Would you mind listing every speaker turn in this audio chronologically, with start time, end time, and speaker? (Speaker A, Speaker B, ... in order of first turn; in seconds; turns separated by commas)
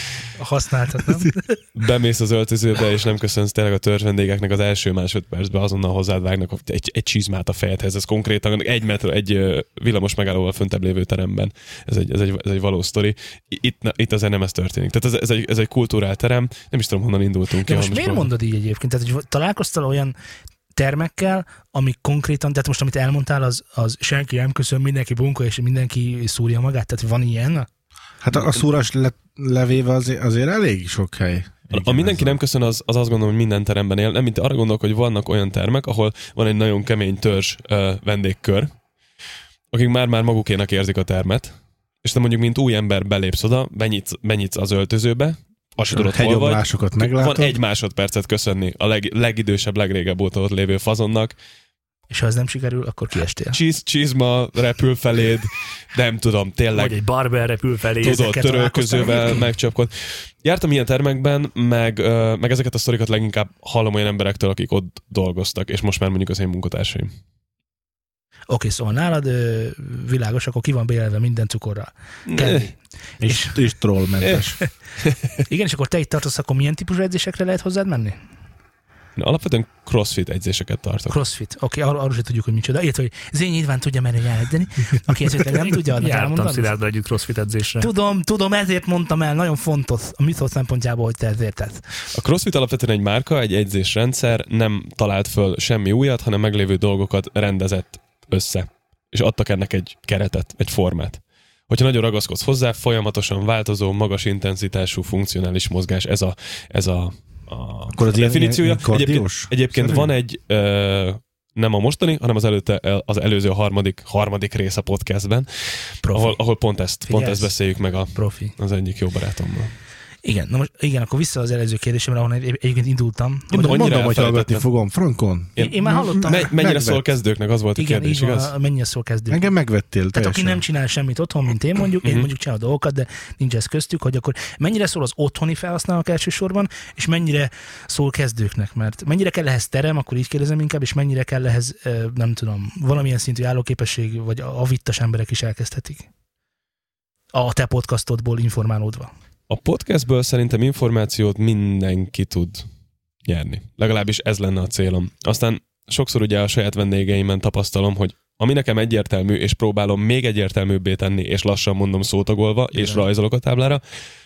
Speaker A: 0.4-1.6, Speaker B: 1.8-18.3, Speaker A: 17.6-20.1, Speaker A: 20.8-27.7, Speaker C: 28.2-32.4, Speaker B: 31.7-38.7, Speaker B: 39.7-51.4, Speaker C: 45.8-47.6, Speaker A: 52.1-53.6, Speaker B: 53.5-57.0, Speaker D: 56.7-58.3, Speaker A: 58.0-59.5, Speaker B: 58.0-67.1, Speaker A: 68.5-73.6, Speaker B: 72.3-72.7, Speaker C: 73.2-74.6, Speaker B: 74.2-74.5, Speaker A: 75.5-78.2, Speaker B: 79.2-81.2, Speaker A: 81.1-86.7, Speaker D: 85.4-87.9, Speaker A: 87.8-91.8, Speaker B: 92.1-119.7, Speaker C: 107.9-110.1, Speaker A: 116.0-116.4, Speaker A: 117.1-117.5, Speaker A: 118.1-118.6, Speaker A: 120.2-123.8, Speaker C: 123.5-127.1, Speaker B: 123.5-124.7, Speaker B: 125.6-128.5, Speaker A: 125.6-126.6, Speaker A: 127.8-129.5, Speaker C: 129.3-130.6, Speaker A: 130.1-146.1, Speaker B: 132.0-132.3, Speaker A: 147.3-149.1, Speaker B: 149.5-152.7, Speaker B: 153.3-163.8